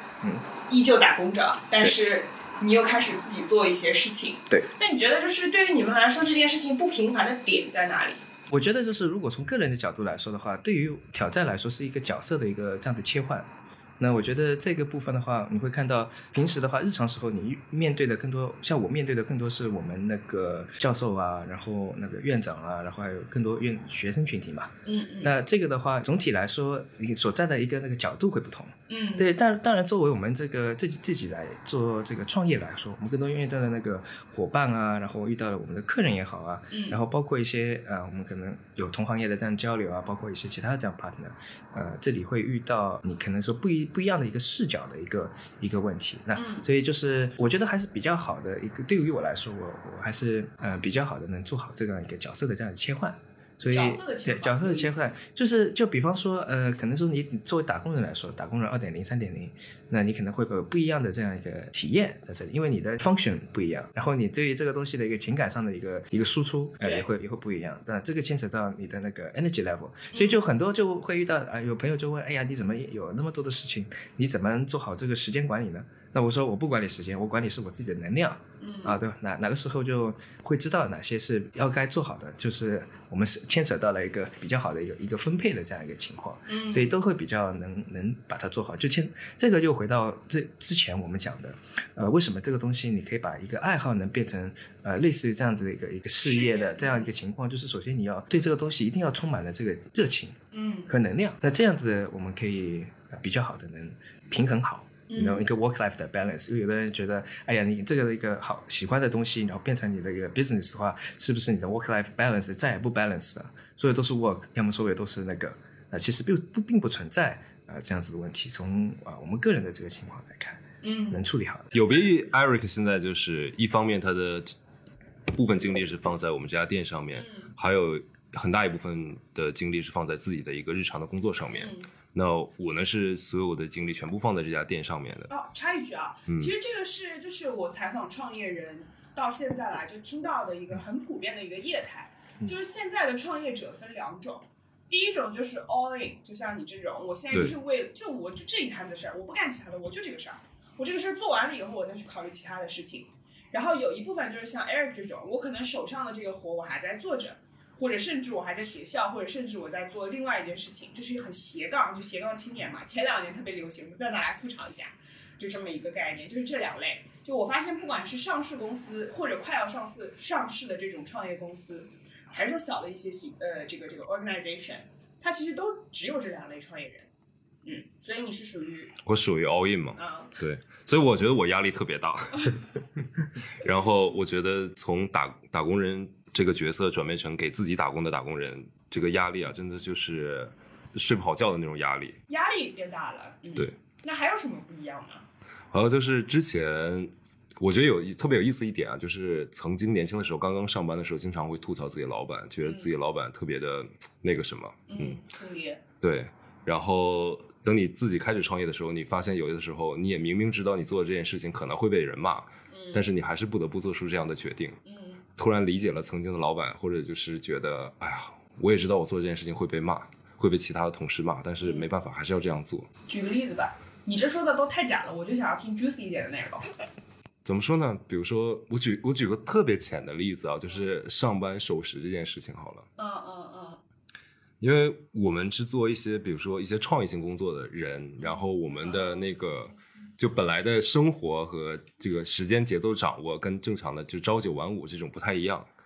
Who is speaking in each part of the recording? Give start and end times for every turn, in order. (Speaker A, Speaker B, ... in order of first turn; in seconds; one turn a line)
Speaker A: 0.6-8.2
Speaker B: 8.5-13.5
Speaker B: 14.0-121.7
Speaker A: 24.9-25.3
Speaker A: 28.9-29.3
Speaker A: 36.7-37.0
Speaker A: 46.3-46.6
Speaker A: 53.7-55.1
Speaker A: 70.1-70.4
Speaker A: 78.6-79.0
Speaker A: 86.5-86.9
Speaker A: 96.2-97.1
Speaker A: 100.5-100.9
Speaker A: 105.1-105.5
Speaker A: 120.8-121.3
Speaker C: 121.7-124.5
Speaker C: 125.3-135.3
Speaker A: 127.2-127.5
Speaker A: 131.5-131.9
Speaker A: 135.3-177.1
Speaker C: 136.3-136.5
Speaker A: 177.6-179.0
Speaker C: 179.1-182.6
Speaker A: 180.0-180.3
Speaker C: 183.6-192.2
Speaker A: 192.3-195.3
Speaker C: 195.7-205.2
Speaker A: 202.6-202.9
Speaker A: 204.9-205.8
Speaker C: 206.0-214.8
Speaker A: 212.7-213.1
Speaker A: 214.8-215.2
Speaker C: 215.4-222.9
Speaker A: 221.6-221.9
Speaker A: 223.1-226.7
Speaker C: 227.4-232.9
Speaker A: 233.0-233.8
Speaker C: 234.6-245.7
Speaker A: 238.2-239.2